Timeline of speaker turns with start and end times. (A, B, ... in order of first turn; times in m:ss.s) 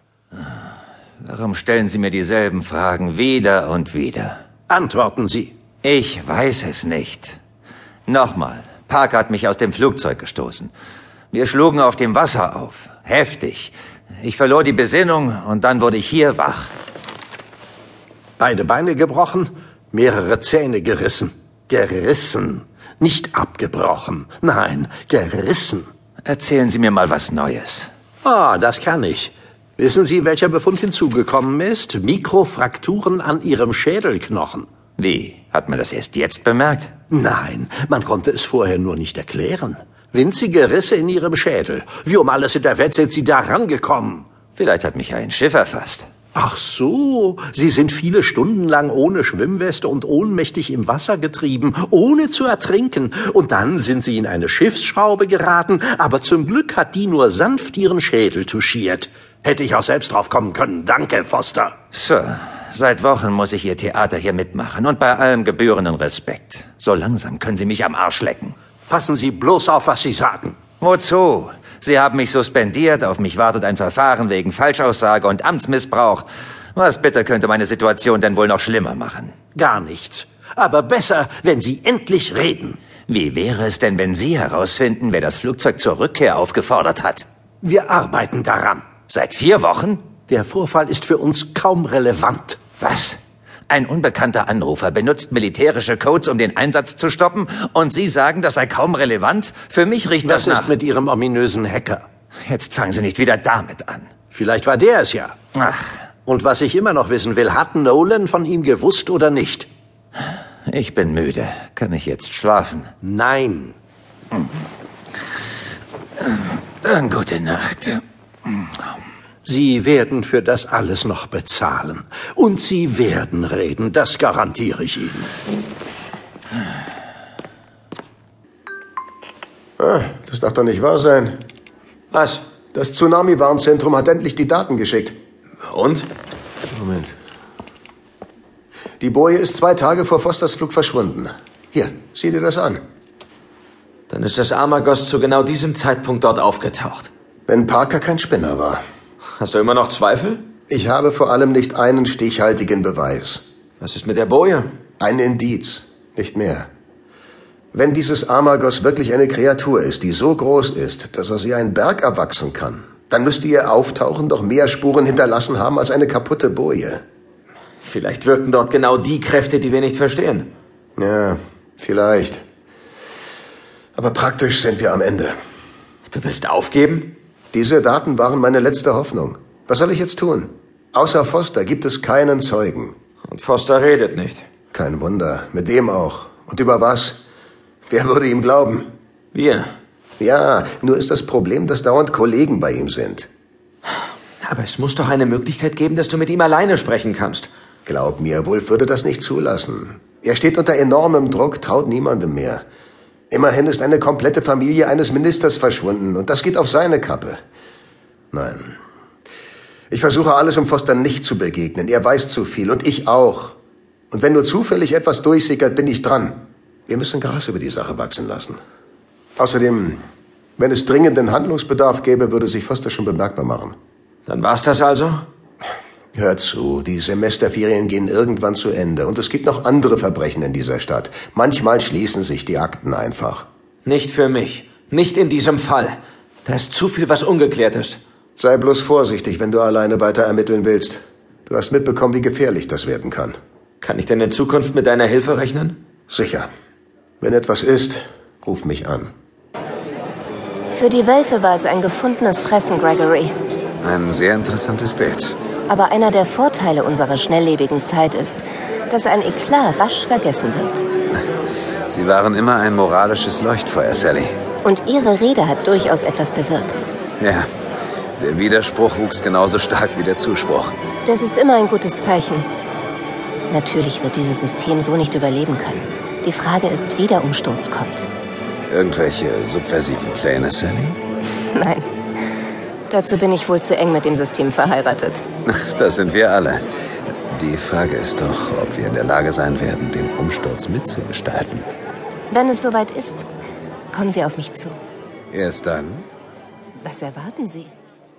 0:01.2-0:04.4 A
0:04.7-0:05.5 B
0:05.8-0:07.4 A
0:08.1-0:10.7 A
0:11.3-0:16.7 A
0:18.4-0:25.9 B
0:26.2-0:27.9 A
0:28.2-0:34.7 B
0:35.0-0:36.9 A
0:37.1-0:44.2 B
0:44.6-0:46.1 A
0:46.3-1:01.7 B
1:01.9-1:08.5 A
1:08.9-1:10.6 B
1:10.8-1:19.3 A
1:19.5-1:22.8 B
1:23.1-1:27.2 A
1:27.6-1:28.8 B
1:29.1-1:30.0 A
1:30.3-1:32.6 B
1:32.8-1:33.2 A
1:33.7-1:40.7 A
1:40.2-1:42.0 B
1:42.4-1:44.1 A
1:44.3-1:45.3 B
1:45.5-1:45.9 A
1:46.2-1:49.7 B
1:50.7-1:52.9 A
1:53.0-1:53.8 B
1:56.2-1:58.6 A
1:59.4-2:05.3 B
2:09.8-2:11.4 C
2:12.1-2:12.4 D
2:12.7-2:15.2 C
2:15.6-2:16.1 D
2:16.7-2:17.1 C
2:19.0-2:22.8 C
2:24.1-2:27.1 D
2:27.5-2:28.8 C
2:29.4-2:30.4 D
2:30.7-2:33.4 C
2:33.8-2:34.6 D
2:35.0-2:36.7 C
2:37.7-2:47.0 C
2:47.8-2:50.5 D
2:51.0-2:52.4 C
2:54.0-2:55.4 C
2:56.1-2:57.1 D
2:57.5-3:02.9 C
3:03.3-3:04.4 D
3:04.7-3:07.2 C
3:07.9-3:08.9 C
3:09.3-3:09.7 D
3:10.2-3:13.3 C
3:14.4-3:17.5 D
3:17.8-3:22.6 C
3:23.3-3:27.4 C
3:28.3-3:28.8 C
3:29.9-3:33.6 C
3:34.1-3:38.6 C
3:39.4-3:40.0 C
3:40.6-3:43.8 C
3:44.3-3:45.2 D
3:46.1-3:53.4 C
3:53.8-3:58.0 D
3:58.4-4:03.4 C
4:03.8-4:05.8 D
4:06.1-4:06.5 C
4:07.2-4:09.1 C
4:10.7-4:13.3 E
4:13.8-4:15.4 F
4:15.7-4:20.8 E
4:21.9-4:24.3 F
4:24.6-4:26.8 E
4:27.2-4:27.5 F
4:28.2-4:30.7 F
4:31.0-4:32.5 E
4:33.5-4:38.1 E
4:38.7-4:41.0 F
4:41.5-4:41.8 E
4:42.9-4:45.2 E
4:45.4-4:46.6 F
4:47.3-4:51.7 F
4:52.3-4:53.2 E
4:53.9-4:54.8 E
4:55.3-4:56.1 F
4:56.8-4:57.7 E